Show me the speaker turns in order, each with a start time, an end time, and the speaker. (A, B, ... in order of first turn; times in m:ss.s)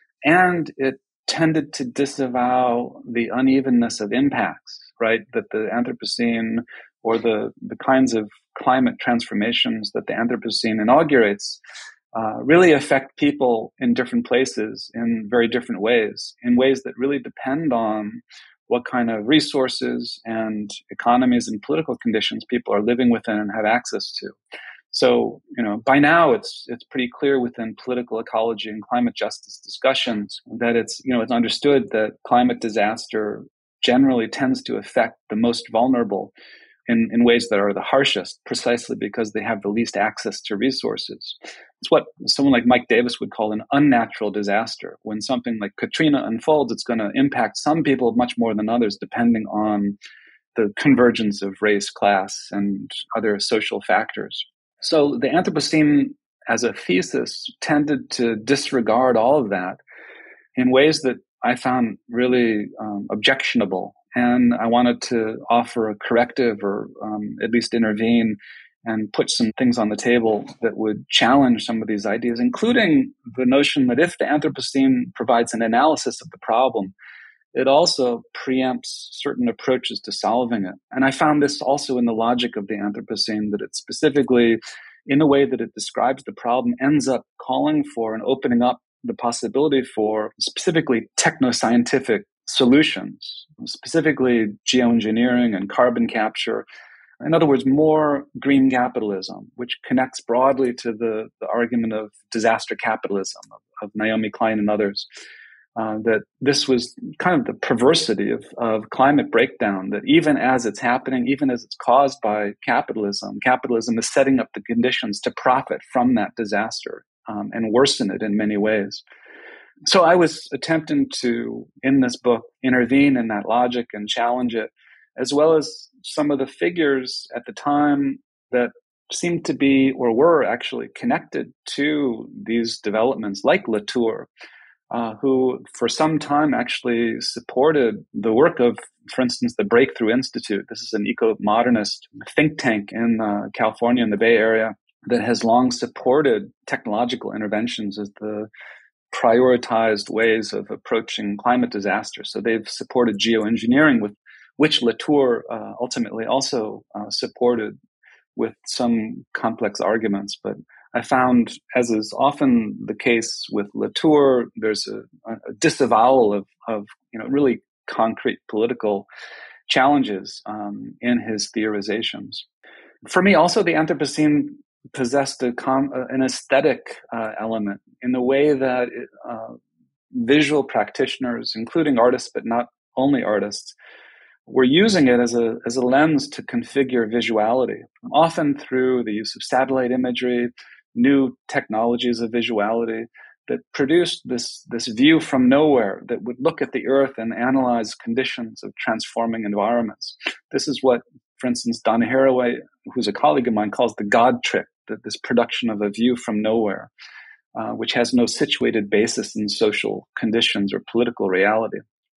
0:00.2-0:11.6 A
0:12.1-0:24.4 A
0:24.9-0:36.3 A
0:36.9-0:50.0 A
0:50.6-0:59.8 A
1:00.6-1:17.0 A
1:17.5-1:36.7 A
1:37.2-1:45.1 A
1:45.8-1:59.0 A
1:59.8-2:14.3 A
2:14.9-2:28.5 A
2:29.1-2:37.8 A
2:38.4-2:49.1 A
2:49.7-2:52.5 A
2:53.0-2:59.6 A
3:00.1-3:03.8 A
3:04.5-3:26.9 A
3:27.6-3:31.8 A